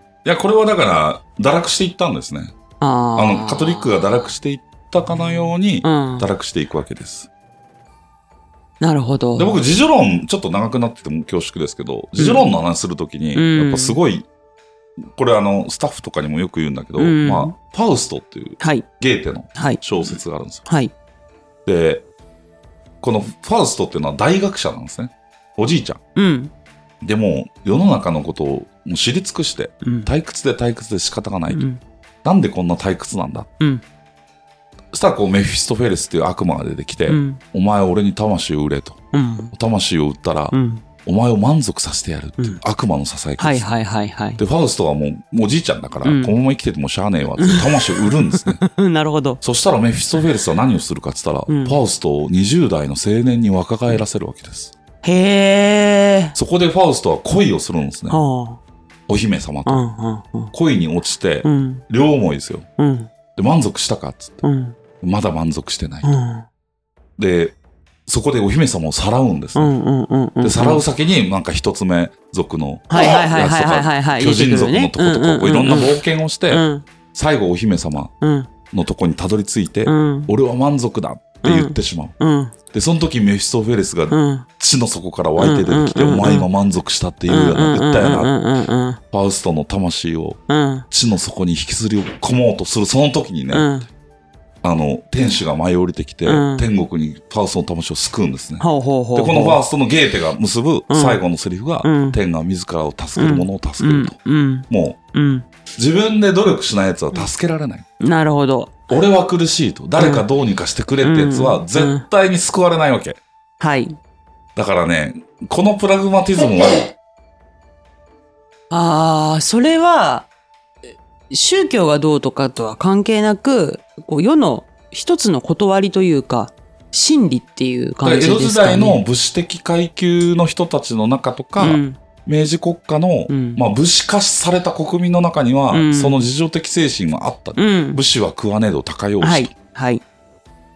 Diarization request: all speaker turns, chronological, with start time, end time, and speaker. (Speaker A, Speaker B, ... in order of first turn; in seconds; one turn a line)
Speaker A: 0.2-2.5
Speaker B: 2.8-4.3
Speaker A: 3.2-7.3
Speaker B: 5.1-6.3
Speaker B: 8.8-9.6
Speaker A: 9.4-14.3
Speaker B: 12.2-12.6
Speaker B: 13.3-14.0
Speaker A: 15.1-20.7
Speaker B: 17.0-17.5
Speaker B: 18.6-18.9
Speaker B: 19.6-20.9
Speaker A: 21.7-22.1
Speaker A: 23.0-26.0
Speaker B: 26.1-26.5
Speaker A: 27.0-31.7
Speaker B: 29.8-30.1
Speaker B: 31.5-31.8
Speaker A: 32.2-33.5
Speaker A: 34.9-39.0
Speaker B: 37.1-37.4
Speaker B: 39.1-39.5
Speaker A: 39.5-43.7
Speaker B: 40.5-40.8
Speaker B: 43.4-44.4
Speaker A: 44.4-48.6
Speaker B: 46.0-46.3
Speaker B: 47.4-49.4
Speaker A: 49.4-54.7
Speaker B: 51.5-51.8
Speaker B: 55.0-56.4
Speaker A: 56.4-58.2
Speaker B: 58.1-58.6
Speaker A: 59.1-59.9
Speaker B: 59.7-60.5
Speaker A: 60.5-62.7
Speaker B: 61.4-61.8
Speaker B: 62.8-63.1
Speaker A: 63.4-64.4
Speaker B: 64.4-64.8
Speaker A: 65.0-66.1
Speaker B: 66.0-66.5
Speaker A: 67.2-67.6
Speaker A: 68.1-69.7
Speaker B: 69.6-70.8
Speaker A: 70.4-78.1
Speaker B: 72.9-76.0
Speaker B: 76.5-76.9
Speaker B: 78.2-78.5
Speaker A: 78.7-82.2
Speaker B: 79.9-80.3
Speaker B: 81.4-82.5
Speaker A: 82.7-88.3
Speaker B: 84.1-84.5
Speaker B: 85.4-86.5
Speaker B: 87.3-89.0
Speaker A: 89.1-93.7
Speaker B: 90.5-90.9
Speaker B: 93.5-93.9
Speaker A: 94.6-104.1
Speaker B: 96.2-96.7
Speaker B: 98.6-99.6
Speaker B: 100.9-101.2
Speaker B: 101.8-102.2
Speaker B: 103.2-105.5
Speaker A: 104.7-105.0
Speaker A: 105.8-107.9
Speaker B: 108.0-108.8
Speaker A: 108.9-113.2
Speaker B: 110.0-110.3
Speaker B: 111.0-112.0
Speaker B: 113.6-114.0
Speaker A: 114.6-116.9
Speaker B: 118.7-120.3
Speaker B: 121.3-129.0
Speaker A: 128.0-139.5
Speaker B: 131.6-132.0
Speaker B: 133.3-133.6
Speaker B: 135.7-136.2
Speaker B: 137.6-138.0
Speaker B: 139.2-140.0